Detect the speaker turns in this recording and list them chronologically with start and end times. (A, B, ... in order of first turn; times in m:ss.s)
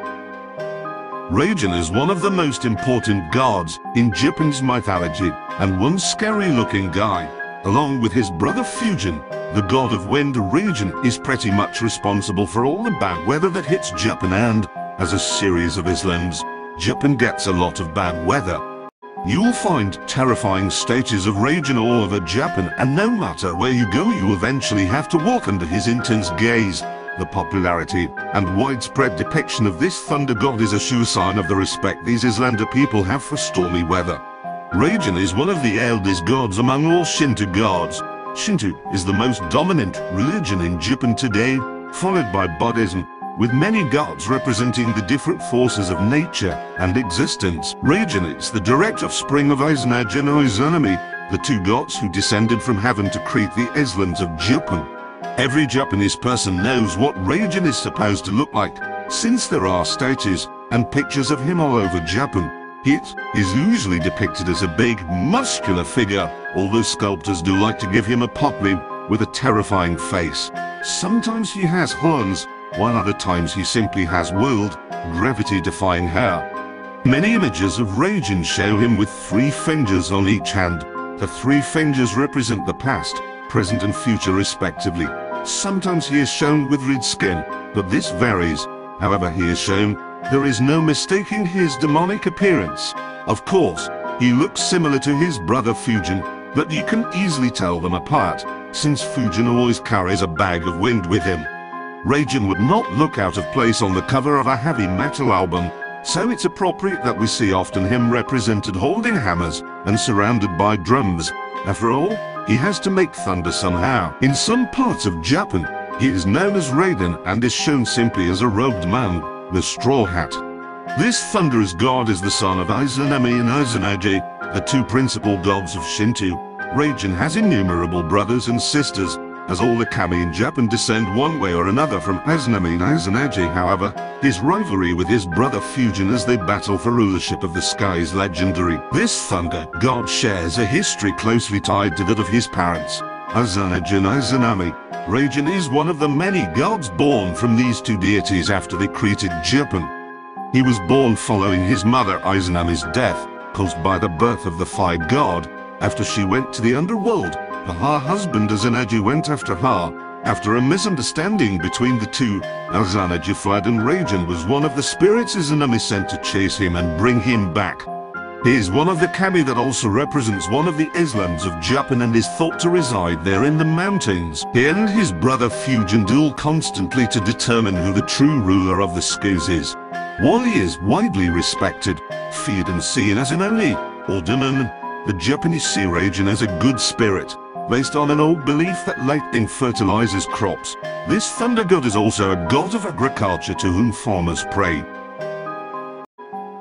0:01.3-0:18.6 A
0:19.2-1:16.5 A
1:17.0-1:41.5 A
1:42.0-2:00.4 A
2:00.9-2:29.9 A
2:30.5-2:47.9 A
2:48.4-3:14.9 A